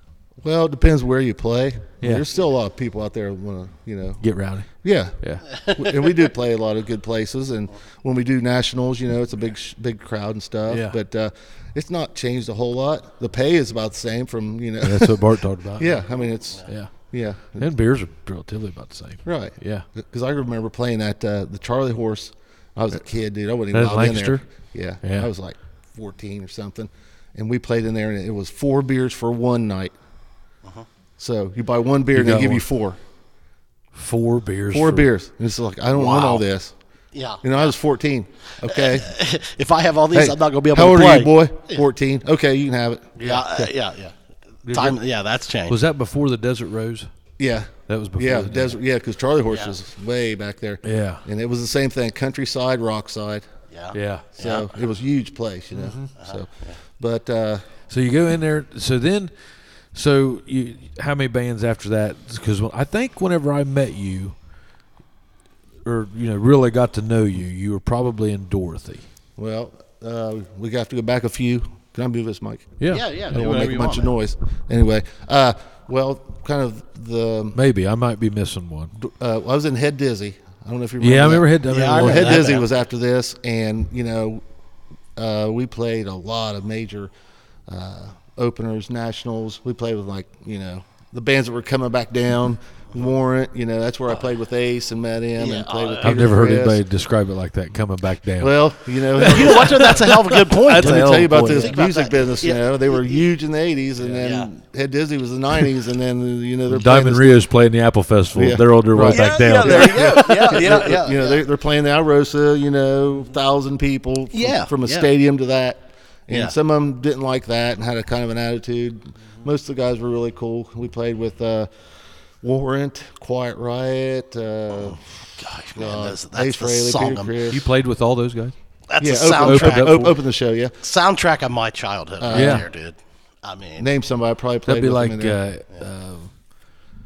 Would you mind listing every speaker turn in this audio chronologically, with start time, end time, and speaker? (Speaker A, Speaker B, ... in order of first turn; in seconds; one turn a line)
Speaker A: 0.4-4.2
Speaker B: 2.0-2.2
Speaker B: 4.2-4.7
Speaker A: 4.8-17.7
Speaker C: 5.5-6.2
Speaker B: 10.7-11.0
Speaker B: 14.8-15.9
Speaker B: 16.6-16.9
Speaker B: 17.6-19.8
Speaker A: 19.2-29.9
Speaker B: 23.7-24.4
Speaker B: 25.0-25.3
Speaker A: 31.2-33.0
Speaker B: 32.1-32.6
Speaker B: 33.9-35.1
Speaker A: 34.7-36.7
Speaker C: 35.9-36.5
Speaker C: 37.1-37.7
Speaker A: 37.4-39.1
Speaker C: 38.7-41.8
Speaker A: 40.1-43.1
Speaker B: 43.2-43.6
Speaker C: 43.2-44.1
Speaker B: 44.6-45.0
Speaker C: 44.7-45.8
Speaker B: 45.7-47.1
Speaker A: 47.4-53.5
Speaker B: 47.9-48.8
Speaker B: 50.8-51.2
Speaker C: 53.7-54.7
Speaker B: 53.9-54.3
Speaker A: 54.3-57.6
Speaker B: 55.7-56.1
Speaker C: 56.2-56.7
Speaker B: 57.9-59.3
Speaker B: 59.9-64.3
Speaker B: 65.8-69.0
Speaker A: 69.4-77.6
Speaker C: 72.9-74.1
Speaker B: 77.5-78.9
Speaker A: 79.0-84.4
Speaker B: 81.0-82.5
Speaker C: 81.7-82.7
Speaker A: 85.2-87.1
Speaker A: 87.7-96.8
Speaker C: 95.4-96.3
Speaker B: 96.0-101.8
Speaker A: 98.4-107.4
Speaker C: 99.2-103.2
Speaker C: 104.0-104.5
Speaker B: 106.7-110.8
Speaker A: 108.3-121.7
Speaker C: 109.0-111.4
Speaker C: 114.3-115.1
Speaker C: 116.3-116.5
Speaker A: 122.4-127.6
Speaker C: 124.8-127.3
Speaker B: 127.5-128.5
Speaker C: 128.9-130.1
Speaker A: 129.0-130.7
Speaker B: 129.4-130.2
Speaker C: 130.8-133.9
Speaker A: 132.2-132.7
Speaker B: 132.3-132.7
Speaker A: 133.8-135.4
Speaker B: 134.7-136.3